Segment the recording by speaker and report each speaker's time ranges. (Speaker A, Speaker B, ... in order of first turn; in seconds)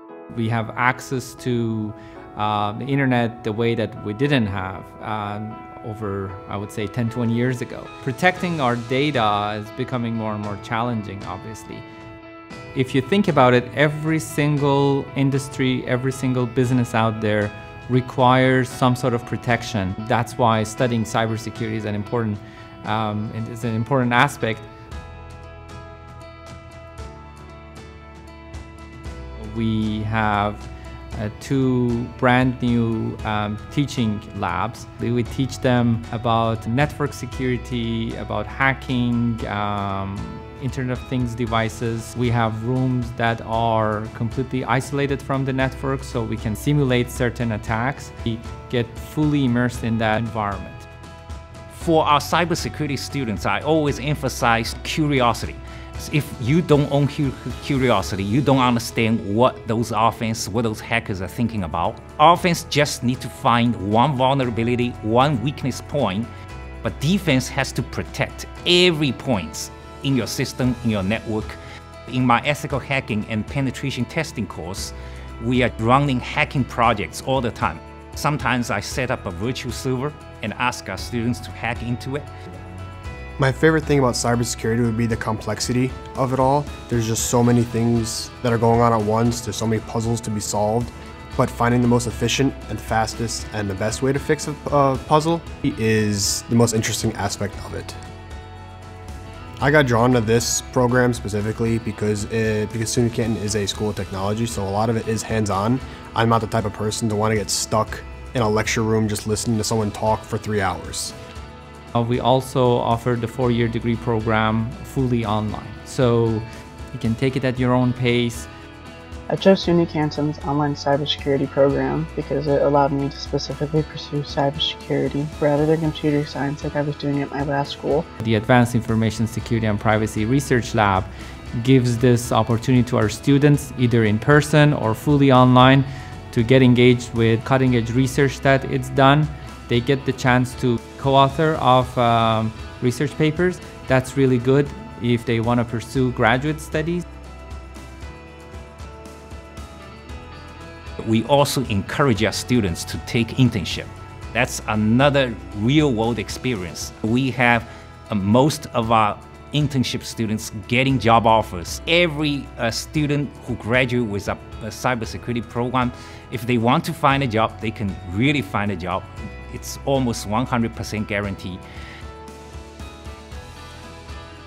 Speaker A: 0.3-11.8, 12.7-24.7, 29.4-50.9, 111.9-118.5, 128.2-147.0
Speaker B: 51.7-66.3, 66.8-82.3, 151.0-171.6
Speaker C: 83.4-98.0, 99.6-111.2
Speaker D: 119.3-128.1